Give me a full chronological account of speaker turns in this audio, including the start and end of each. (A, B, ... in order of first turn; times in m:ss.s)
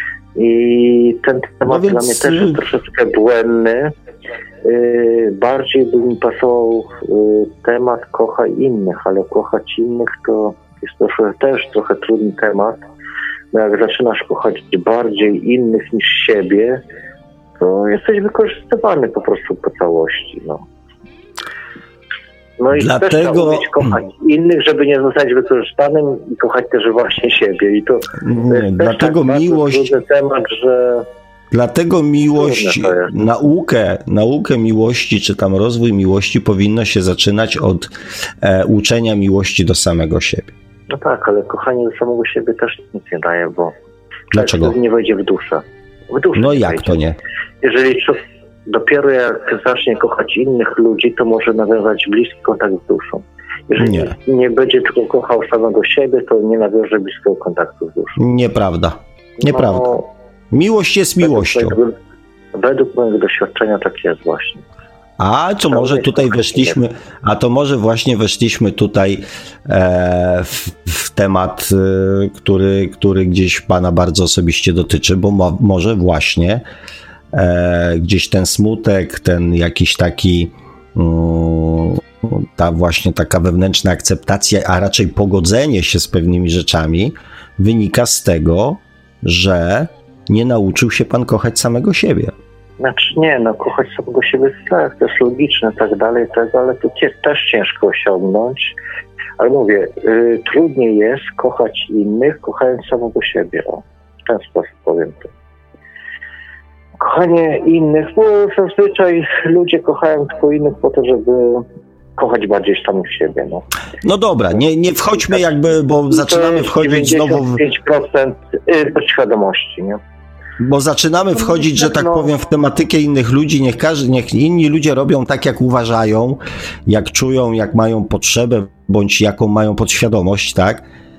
0:00.4-0:03.9 A
0:01.7-0:02.6 B
0:04.6-0:12.8 A
0:13.5-0:16.8 A
0:17.6-0:20.6 A
0:22.6-0:31.1 A
0:22.7-0:24.0 B
0:28.2-0:30.0 B
0:31.5-0:40.5 B
0:32.3-0:33.1 A
0:40.9-0:43.7 A
0:44.3-0:44.7 B
0:44.3-0:47.0 A
0:46.3-0:47.2 B
0:47.6-0:58.2 A
0:53.8-0:54.1 B
0:58.2-1:00.0 B
0:59.4-1:00.0 A
1:00.5-1:01.8 B
1:01.2-1:01.9 A
1:02.5-1:04.6 A
1:05.2-1:16.6 B
1:05.7-1:06.8 A
1:17.3-1:32.3 B
1:32.8-1:38.7 A
1:39.4-1:45.3 A
1:47.0-1:51.6 A
1:52.2-1:53.6 A
1:54.0-1:57.6 B
1:56.1-2:00.0 A
2:00.6-2:10.8 B
2:01.4-2:02.3 A